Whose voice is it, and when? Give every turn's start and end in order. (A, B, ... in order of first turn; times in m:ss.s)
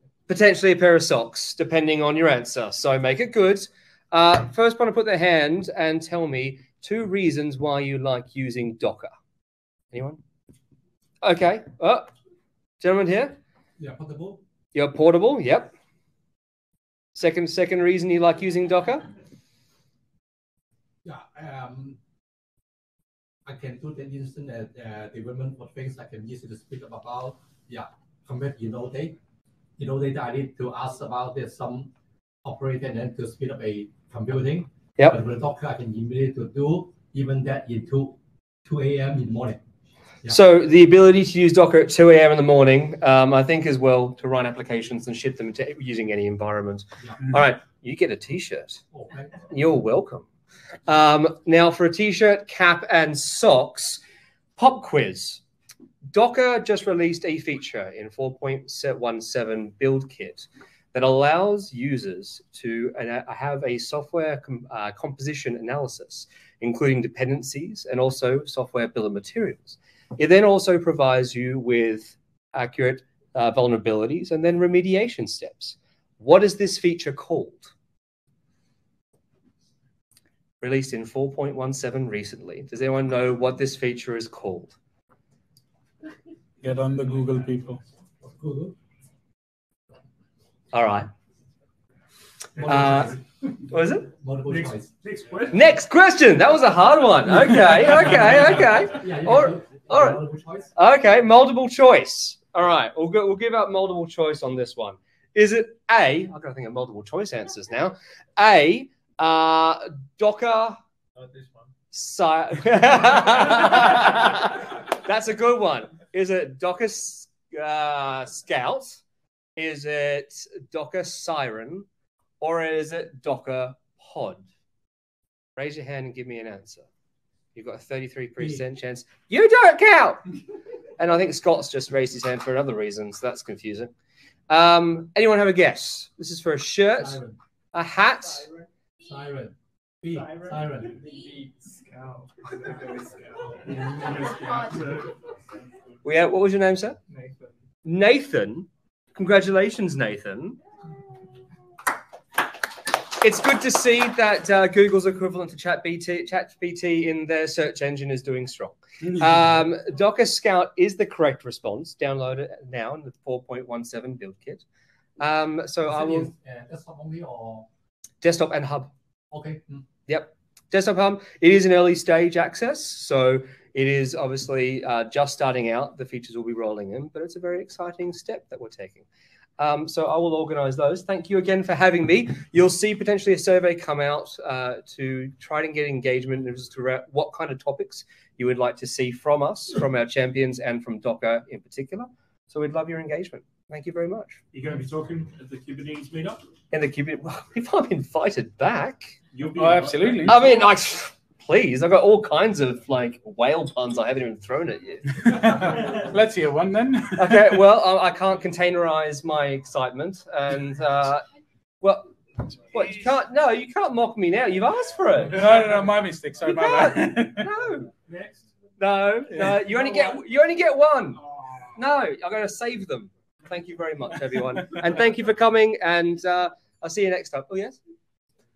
0:00.3-0:09.1 A
0:09.9-0:10.2 A
0:11.2-0:12.1 A
0:12.8-0:13.4 A
0:13.8-0:14.4 B
0:14.7-0:15.7 A
0:17.1-0:19.1 A
0:21.0-0:22.0 B
0:23.4-0:29.2 B
0:29.8-0:31.9 B
0:32.4-0:39.6 B
0:40.3-0:48.8 A
0:48.9-0:49.3 B
0:49.4-0:50.2 A
0:50.9-0:54.0 A
0:54.6-0:55.4 A
0:56.1-1:17.7 A
1:20.6-1:24.8 A
1:26.6-1:27.8 C
1:28.2-1:28.7 B
1:30.7-1:31.1 A
1:32.6-1:33.1 D
1:32.6-1:34.1 A
1:32.6-1:33.1 B
1:34.1-1:34.9 B
1:34.4-1:35.6 D
1:35.5-1:40.2 A
1:38.4-1:40.7 B
1:40.7-1:50.8 A
1:51.2-1:51.6 D
1:51.9-1:59.0 A
1:59.6-2:01.9 A
2:02.4-2:04.4 A
2:05.6-2:06.8 A
2:07.5-2:10.3 A
2:11.0-2:13.9 A
2:14.5-2:17.2 A
2:17.0-2:17.4 B
2:17.7-2:18.5 A
2:19.0-2:21.0 B
2:20.2-2:25.1 D
2:23.8-2:24.0 B
2:26.0-2:27.0 A
2:27.1-2:27.5 D
2:27.8-2:30.6 A
2:33.2-2:44.6 A
2:45.2-2:46.3 A
2:45.9-2:47.7 B
2:48.2-2:48.9 A
2:49.3-2:49.8 B
2:50.1-2:59.0 A
2:59.6-3:14.4 A
3:14.5-3:16.4 D
3:16.7-3:19.2 A
3:19.3-3:20.4 D
3:19.6-3:20.5 C
3:20.2-3:25.8 A
3:25.3-3:27.6 C
3:27.1-3:31.2 A
3:31.8-3:32.1 A
3:32.7-3:35.4 A
3:35.3-3:37.5 C
3:36.4-3:37.9 A
3:38.0-3:38.5 D
3:38.8-3:41.2 A
3:39.3-3:40.2 D
3:41.8-3:47.8 A